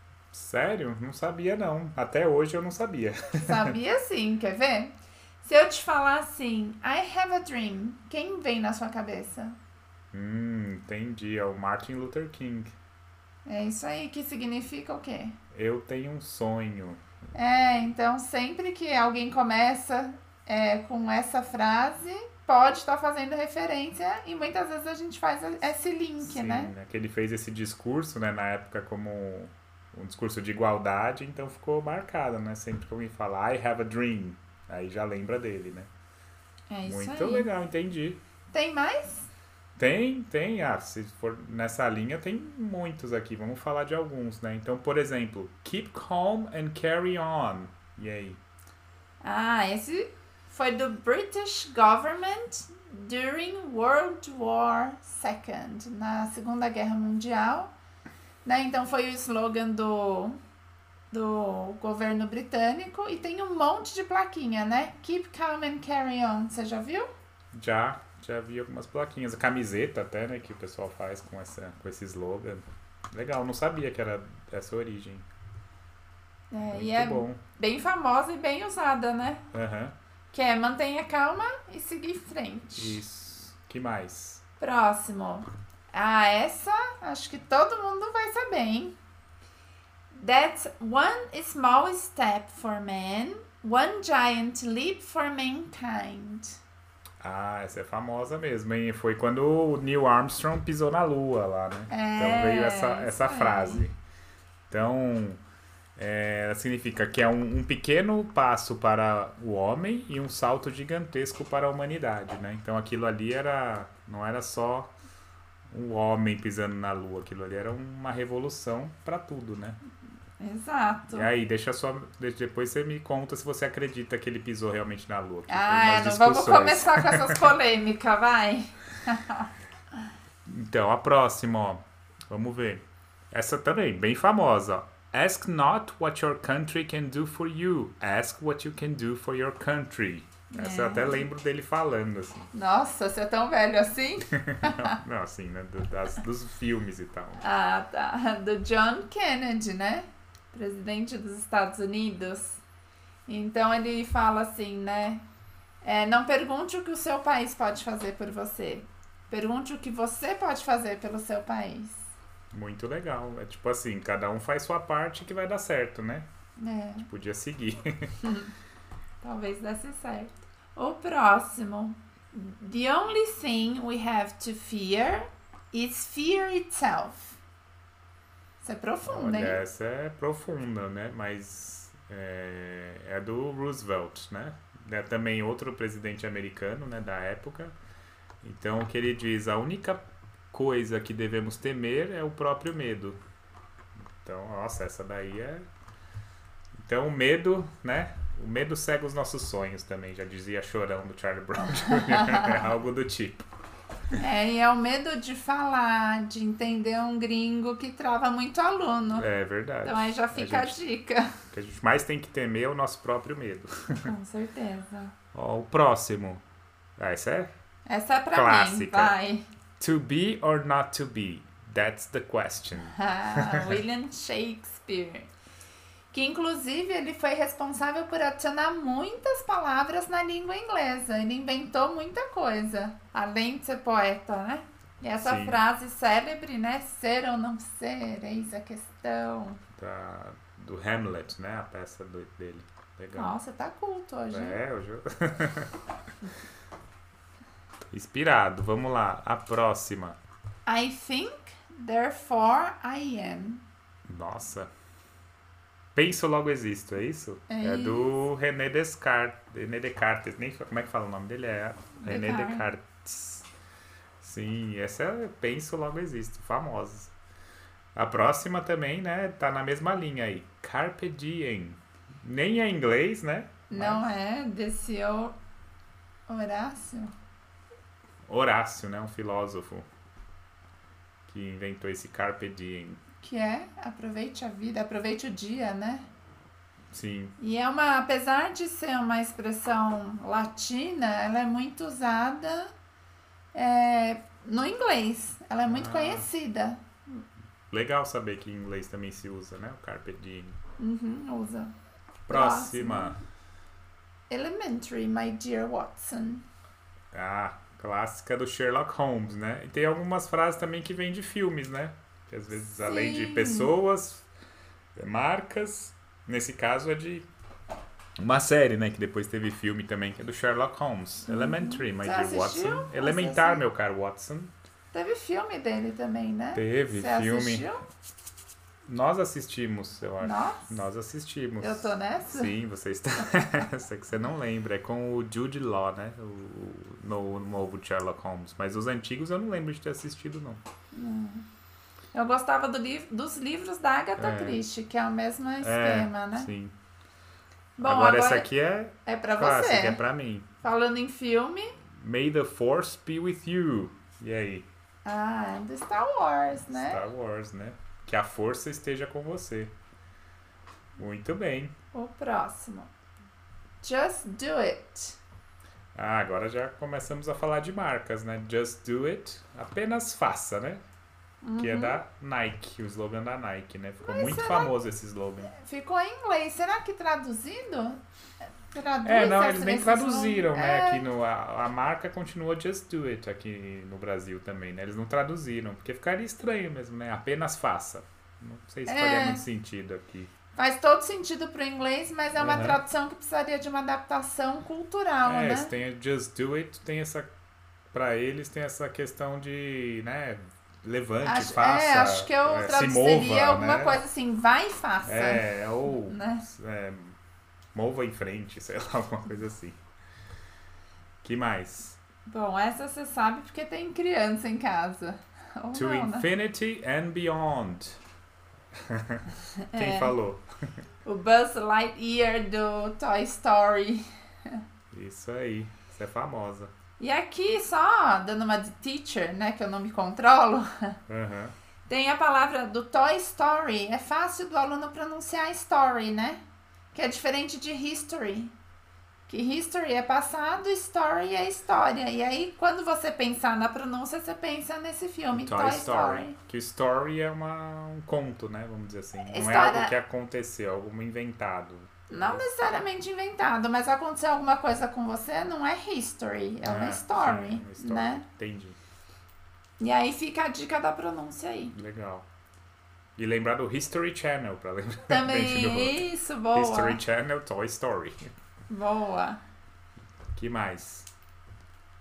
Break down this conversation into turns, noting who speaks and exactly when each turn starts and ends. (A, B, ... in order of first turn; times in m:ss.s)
0:00.3-0:03.7 A
0:03.4-0:09.6 B
0:10.1-0:12.7 A
0:13.4-0:15.4 B
0:15.5-0:17.0 A
0:17.3-0:26.7 B
0:26.2-0:35.9 A
0:36.7-0:37.5 B
0:36.8-0:38.2 A
0:38.5-0:39.2 B
0:39.8-0:48.4 A
0:49.2-0:57.7 B
0:58.4-1:00.4 B
1:01.1-1:07.1 B
1:07.5-1:15.3 A
1:16.5-1:19.4 B
1:16.7-1:17.4 A
1:19.5-1:19.9 A
1:20.3-1:23.0 B
1:22.7-1:24.4 A
1:24.6-1:28.9 B
1:30.1-1:36.6 B
1:37.2-1:44.0 A
1:41.9-1:43.9 B
1:44.7-1:45.4 A
1:46.0-1:54.9 A
1:55.7-1:59.8 A
2:00.4-2:01.3 B
2:01.1-2:07.5 A
2:05.5-2:09.5 B
2:10.4-2:22.5 A
2:20.5-2:21.3 B
2:22.5-2:25.0 B
2:24.4-2:27.4 A
2:27.4-2:32.6 B
2:33.3-2:35.2 B
2:35.8-2:42.1 B
2:42.5-2:46.3 A
2:46.6-2:47.1 B
2:47.1-2:48.1 A
2:48.2-2:48.5 B
2:49.2-2:57.4 B
2:58.6-2:59.6 B
2:59.0-3:07.7 A
3:08.4-3:13.2 A
3:14.2-3:15.6 A
3:16.8-3:23.5 A
3:21.8-3:22.6 B
3:24.2-3:29.3 B
3:29.1-3:30.8 A
3:29.8-3:31.3 B
3:31.5-3:34.1 A
3:34.0-3:35.1 B
3:35.3-3:36.4 A
3:37.0-3:37.5 A
3:37.9-3:39.4 B
3:38.3-3:39.2 A
3:39.8-3:43.8 A
3:42.9-3:45.3 B
3:46.1-3:59.6 B
3:55.2-3:55.6 A
3:59.8-4:03.4 A
4:03.2-4:04.6 B
4:04.3-4:05.7 A
4:07.9-4:10.2 A
4:10.6-4:13.6 B
4:14.1-4:14.7 A
4:15.9-4:23.5 A
4:17.5-4:18.1 B
4:22.0-4:22.6 B
4:24.2-4:27.1 A
4:28.0-4:34.1 A
4:33.7-4:35.3 B
4:36.3-4:37.1 B
4:38.2-4:39.8 A
4:41.3-4:43.0 A
4:43.2-4:46.0 B
4:46.9-4:47.3 A
4:47.4-4:52.7 B
4:53.5-4:56.8 B
4:55.7-4:56.3 A
4:57.7-5:00.6 A
5:00.8-5:01.7 B
5:02.3-5:03.2 A
5:02.3-5:03.1 B
5:04.3-5:06.4 B
5:07.1-5:14.3 A
5:12.8-5:13.7 B
5:15.0-5:17.3 A
5:18.2-5:24.5 A
5:21.3-5:23.6 B
5:24.9-5:27.8 B
5:26.5-5:27.7 A
5:28.9-5:40.6 A
5:30.2-5:30.8 B
5:31.6-5:32.5 B
5:33.2-5:33.5 B
5:40.9-5:41.4 B
5:42.1-5:46.5 B
5:44.2-5:44.6 A
5:45.6-5:46.7 A
5:47.8-5:48.5 B
5:47.8-5:50.4 A
5:49.0-5:50.0 B
5:50.6-5:51.8 B
5:51.9-5:54.6 A
5:55.0-5:57.0 B
5:56.7-5:59.7 A
6:01.0-6:01.7 A
6:01.9-6:02.9 B
6:03.8-6:05.2 B
6:05.9-6:10.8 A
6:11.4-6:12.0 B
6:11.6-6:15.5 A
6:14.0-6:14.8 B
6:15.4-6:18.0 B
6:18.7-6:21.0 B
6:19.0-6:30.3 A
6:28.8-6:29.4 B
6:30.5-6:35.7 B
6:32.4-6:32.8 A
6:35.2-6:37.3 A
6:37.9-6:44.0 A
6:41.2-6:46.4 B
6:45.0-6:47.2 A
6:47.7-6:49.8 A
6:51.2-6:52.0 A
6:52.3-6:56.3 B
6:55.7-6:58.0 A
6:58.9-6:59.2 A
6:59.7-7:00.1 B
6:59.7-7:00.4 A
7:01.0-7:04.6 B
7:04.9-7:06.7 A
7:07.0-7:11.0 B
7:11.1-7:11.5 A
7:11.9-7:16.4 B
7:16.9-7:18.5 B
7:19.3-7:26.4 B
7:25.3-7:32.5 A
7:29.2-7:29.9 B
7:32.1-7:38.2 B
7:36.6-7:38.8 A
7:39.8-7:41.7 B
7:41.7-7:42.2 A
7:43.2-7:48.2 A
7:45.1-7:47.0 B
7:48.7-7:49.4 B
7:50.3-7:51.1 A